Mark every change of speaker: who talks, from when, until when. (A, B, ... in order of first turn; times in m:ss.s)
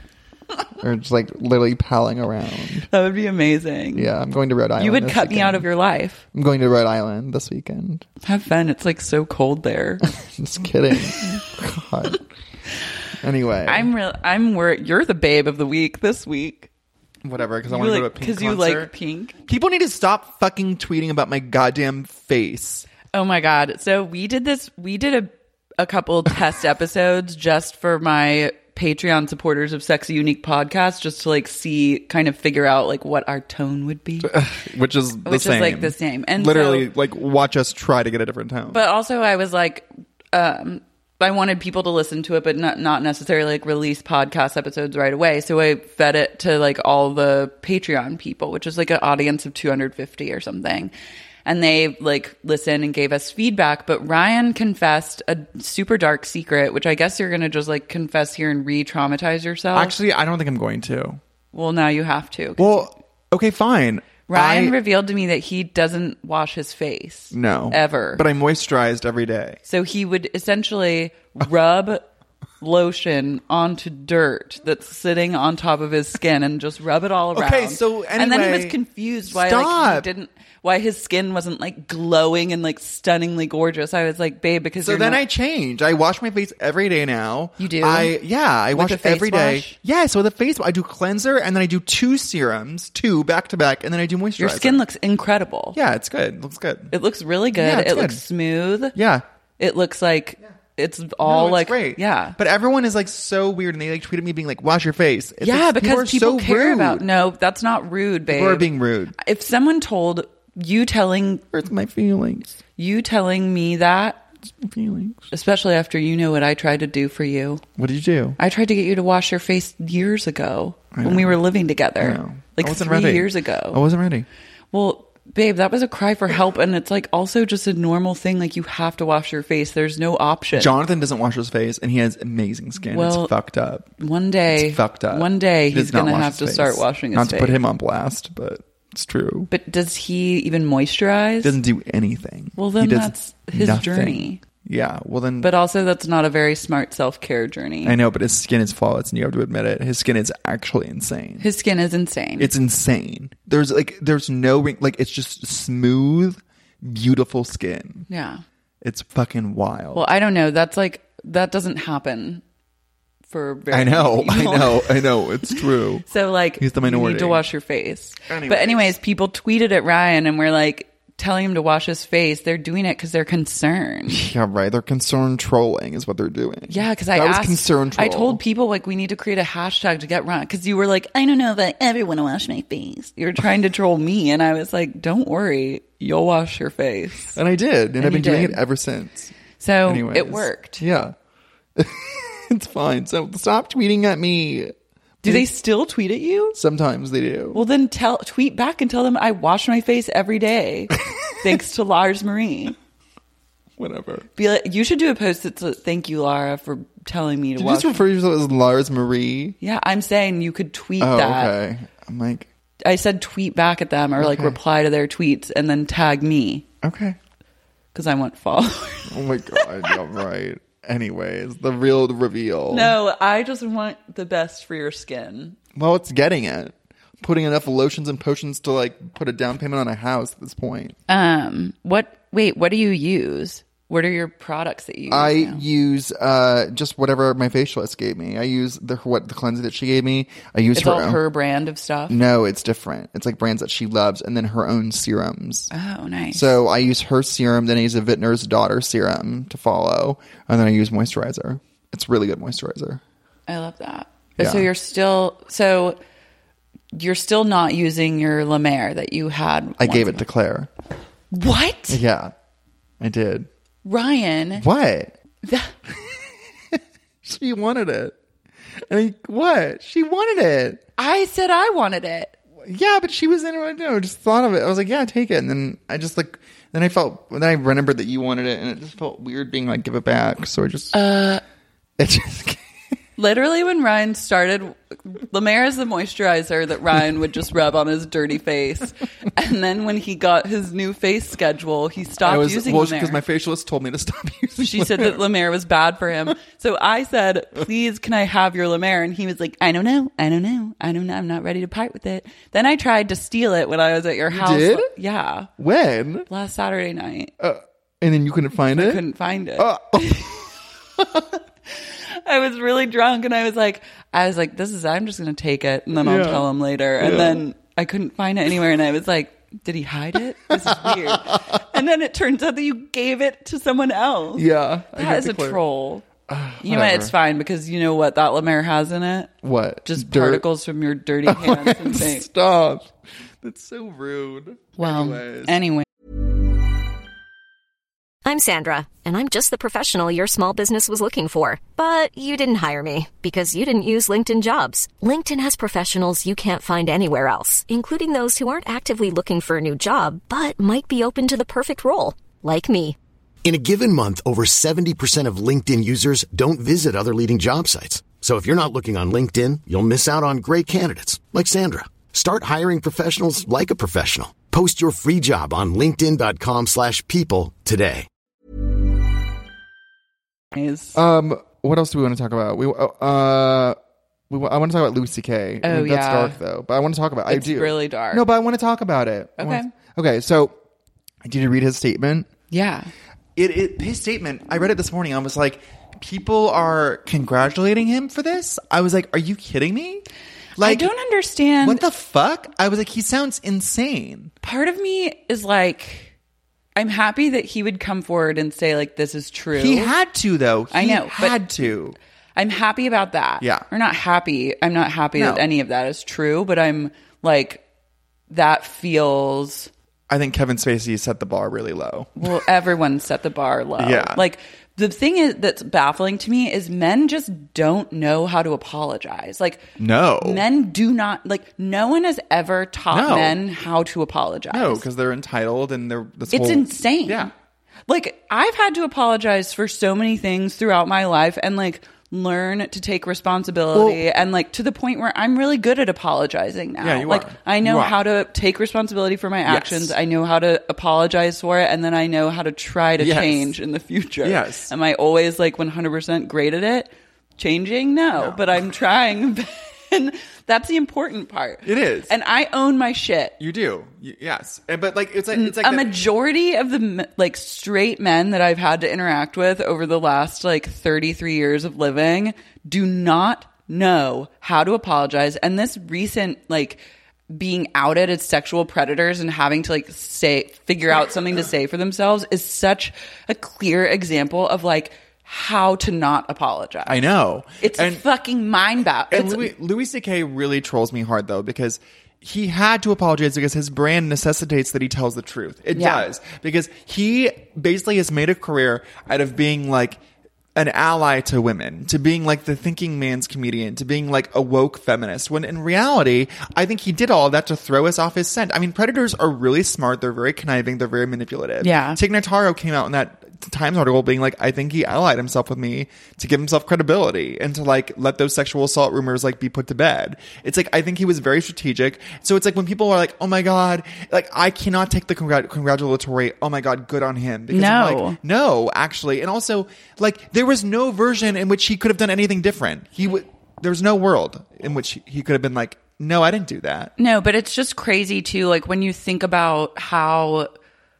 0:00.8-0:02.9 A
0:02.9-0:04.1 B
0:03.9-0:05.7 A
0:04.8-0:06.2 B
0:06.3-0:08.0 A
0:08.2-0:10.0 B
0:10.0-0:12.2 A
0:11.1-0:11.4 B
0:13.2-0:13.9 A
0:13.6-0:16.7 B
0:17.2-0:18.9 A
0:17.7-0:19.3 B
0:19.4-0:22.9 A
0:23.1-0:34.4 B
0:34.2-0:38.8 A
0:35.2-0:36.9 B
0:38.7-0:50.9 B
0:51.4-0:59.9 B
0:59.7-1:01.2 A
1:01.5-1:02.9 B
1:02.6-1:04.8 A
1:04.3-1:08.2 B
1:07.3-1:09.6 A
1:09.7-1:12.1 B
1:12.6-1:25.2 B
1:17.3-1:20.1 A
1:24.8-1:34.8 A
1:27.6-1:28.2 B
1:28.7-1:29.8 B
1:34.4-1:35.8 B
1:35.7-1:36.9 A
1:36.9-1:39.0 B
1:37.6-1:38.2 A
1:38.9-1:39.2 A
1:39.6-1:42.4 B
1:41.2-1:47.0 A
1:45.4-1:51.4 B
1:48.3-1:49.2 A
1:51.5-1:52.6 A
1:52.8-1:54.2 B
1:54.5-1:55.3 A
1:55.3-1:57.6 B
1:57.8-1:58.4 A
1:58.4-2:03.8 B
2:00.9-2:01.4 A
2:02.0-2:04.2 A
2:04.7-2:10.7 B
2:10.5-2:14.0 A
2:12.9-2:13.3 B
2:14.0-2:17.6 B
2:14.5-2:19.5 A
2:19.5-2:21.6 B
2:21.4-2:25.5 A
2:22.6-2:24.4 B
2:25.4-2:28.0 B
2:27.8-2:31.4 A
2:31.4-2:32.5 B
2:32.4-2:38.1 A
2:38.1-2:38.4 B
2:38.8-2:40.1 A
2:39.9-2:42.4 B
2:43.3-2:54.2 B
2:43.7-2:46.1 A
2:46.6-2:47.4 A
2:48.2-2:49.0 A
2:54.1-2:58.4 A
2:56.7-3:07.4 B
3:07.3-3:09.3 A
3:08.0-3:08.6 B
3:09.6-3:10.8 B
3:09.8-3:11.1 A
3:11.8-3:15.4 A
3:15.2-3:16.6 B
3:16.5-3:17.6 A
3:17.5-3:22.8 B
3:23.8-3:24.3 A
3:24.4-3:28.0 B
3:27.6-3:29.6 A
3:29.6-3:31.5 B
3:31.0-3:32.5 A
3:32.8-3:36.6 B
3:34.2-3:34.6 A
3:36.8-3:37.2 A
3:37.9-3:40.0 B
3:39.1-3:42.9 A
3:42.7-3:45.6 B
3:45.7-3:51.0 A
3:51.1-3:55.6 B
3:55.1-4:01.2 A
4:00.7-4:02.2 B
4:02.1-4:05.7 A
4:05.7-4:06.6 B
4:06.3-4:13.0 A
4:13.5-4:16.0 B
4:14.4-4:14.7 A
4:16.9-4:20.2 B
4:19.8-4:20.7 A
4:21.3-4:22.0 B
4:21.9-4:22.3 A
4:23.0-4:23.5 A
4:23.8-4:24.6 B
4:24.6-4:25.1 A
4:25.4-4:25.7 B
4:26.7-4:28.1 A
4:28.9-4:30.8 A
4:31.0-4:32.3 B
4:32.6-4:41.1 A
4:40.9-4:41.4 B
4:42.0-4:42.6 A
4:43.2-4:53.2 B
4:52.2-4:55.2 A
4:54.6-5:05.5 B
5:04.3-5:04.9 A
5:05.6-5:06.3 A
5:06.3-5:07.3 B
5:07.4-5:09.0 A
5:08.7-5:10.4 B
5:09.6-5:11.2 A
5:11.7-5:26.0 B
5:16.0-5:16.5 A
5:17.0-5:17.4 A
5:20.5-5:21.6 A
5:24.4-5:25.6 A
5:26.3-5:27.1 A
5:26.6-5:32.3 B
5:29.4-5:30.4 A
5:31.2-5:35.6 A
5:34.8-5:35.9 B
5:38.2-5:53.0 C
5:53.4-6:08.1 D
6:10.5-6:11.0 B
6:10.9-6:13.8 A
6:14.3-6:20.5 A
6:15.6-6:16.4 B
6:17.3-6:18.2 B
6:19.4-6:19.7 B
6:21.2-6:22.3 A
6:22.5-6:22.9 B
6:23.4-6:30.0 A
6:30.6-6:30.9 A
6:30.6-6:31.8 B
6:31.6-6:34.3 A
6:34.4-6:36.1 B
6:36.7-6:39.9 B
6:39.5-6:42.0 A
6:40.7-6:41.7 B
6:42.4-6:47.6 B
6:43.4-6:43.6 A
6:45.1-6:45.4 A
6:48.3-6:49.7 B
6:50.1-6:52.4 A
6:52.2-7:04.8 B
6:53.8-6:54.2 A
6:59.8-7:00.4 A
7:02.9-7:03.4 A
7:04.5-7:07.3 A
7:06.3-7:07.3 B
7:07.9-7:33.4 B
7:13.7-7:14.0 A
7:16.8-7:18.0 A
7:19.4-7:20.0 A
7:23.0-7:23.5 A
7:24.2-7:24.7 A
7:28.2-7:28.6 A
7:31.6-7:32.1 A
7:33.4-7:36.0 A
7:35.3-7:57.0 B
7:56.8-7:58.0 A
7:57.6-7:59.5 B
7:59.1-8:10.0 A
8:05.7-8:06.0 B
8:10.5-8:46.9 A
8:21.6-8:22.0 B
8:37.5-8:38.2 B
8:47.0-8:50.5 B